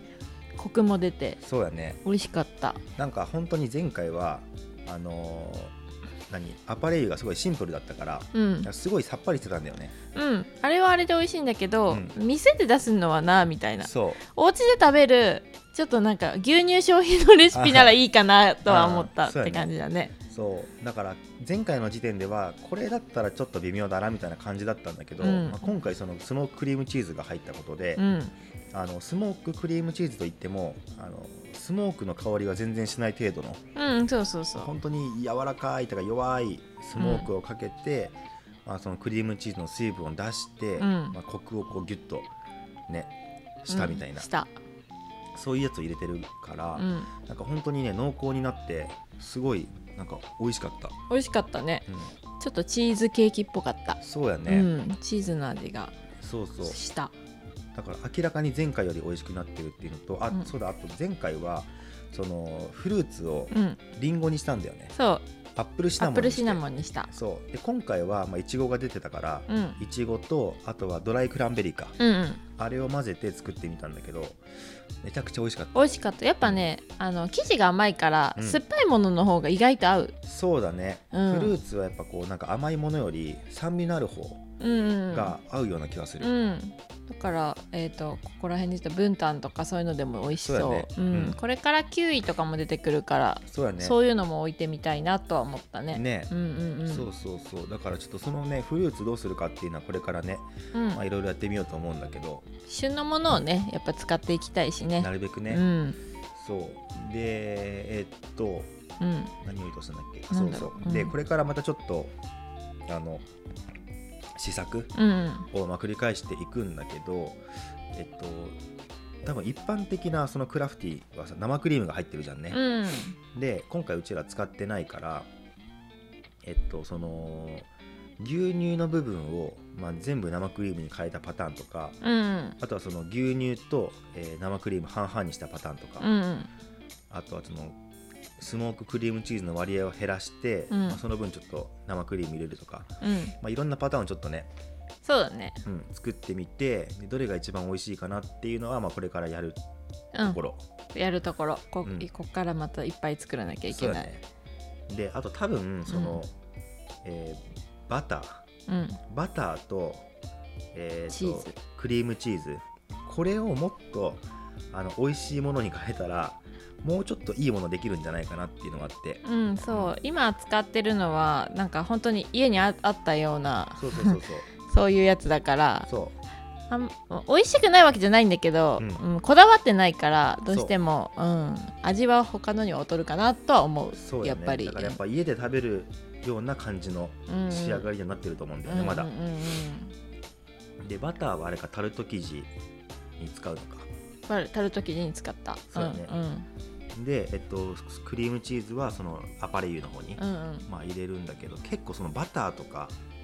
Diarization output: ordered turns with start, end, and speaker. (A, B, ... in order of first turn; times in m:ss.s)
0:00.6-0:01.4 A
0:01.4-0:02.0 B
0:02.0-0:02.8 A
0:03.0-0:05.7 B
0:06.3-0:10.0 B
0:08.3-0:08.7 A
0:10.1-0:20.1 A
0:11.9-0:12.1 B
0:13.8-0:14.2 B
0:17.5-0:18.0 B
0:18.6-0:19.7 B
0:20.3-0:28.0 B
0:25.2-0:25.6 A
0:28.0-0:28.3 A
0:28.7-0:33.6 B
0:33.7-0:34.7 A
0:34.6-0:42.3 B
0:37.0-0:37.3 A
0:40.8-0:41.2 A
0:42.9-0:43.1 B
0:43.6-0:44.3 B
0:43.7-0:44.5 A
0:45.3-0:50.9 B
0:46.8-0:47.1 A
0:51.1-0:51.8 A
0:52.4-0:55.9 A
0:54.0-0:54.7 B
0:56.2-0:56.8 B
0:56.6-0:57.1 A
0:57.7-1:04.9 B
1:03.5-1:03.8 A
1:04.9-1:05.2 A
1:05.6-1:12.0 B
1:06.0-1:07.1 A
1:09.5-1:09.8 A
1:12.0-1:12.4 A
1:12.6-1:14.4 B
1:15.0-1:15.8 B
1:15.7-1:20.1 A
1:18.4-1:18.6 B
1:20.2-1:24.4 B
1:21.1-1:21.5 A
1:24.6-1:25.4 A
1:25.1-1:26.3 B
1:26.2-1:37.1 A
1:30.2-1:31.4 B
1:33.5-1:34.0 B
1:35.9-1:36.3 B
1:36.8-1:42.4 B
1:40.7-1:41.0 A
1:42.7-1:46.0 A
1:45.0-1:45.6 B
1:46.4-1:48.7 B
1:49.0-1:49.3 A
1:49.4-1:52.1 B
1:50.3-1:51.1 A
1:52.9-1:53.2 B
1:54.4-1:54.9 B
1:54.9-1:55.5 A
1:55.5-1:57.4 B
1:57.9-1:58.6 B
1:59.2-2:02.6 B
2:02.5-2:03.2 A
2:03.3-2:05.3 B
2:06.4-2:07.7 B
2:08.2-2:12.0 B
2:12.0-2:12.6 A
2:12.6-2:16.1 B
2:16.0-2:16.5 A
2:17.1-2:17.8 B
2:18.4-2:24.5 B
2:20.7-2:21.0 A
2:23.0-2:23.3 A
2:25.0-2:25.6 A
2:25.6-2:29.6 B
2:30.1-2:30.4 A
2:30.2-2:30.6 B
2:30.9-2:34.1 A
2:33.7-2:34.2 B
2:34.9-2:36.3 B
2:35.9-2:36.2 A
2:37.0-2:38.4 B
2:38.7-2:39.0 A
2:39.1-2:40.0 B
2:40.7-2:49.9 B
2:41.1-2:41.5 A
2:49.2-2:55.9 A
2:53.7-2:54.4 B
2:55.9-2:56.2 B
2:56.7-3:05.0 A
2:58.8-2:59.0 B
3:00.5-3:00.7 B
3:03.9-3:09.1 B
3:07.3-3:07.9 A
3:08.6-3:09.9 A
3:10.8-3:12.5 B
3:13.2-3:13.9 B
3:14.3-3:16.5 A
3:15.7-3:16.1 B
3:16.9-3:23.0 B
3:20.2-3:20.7 A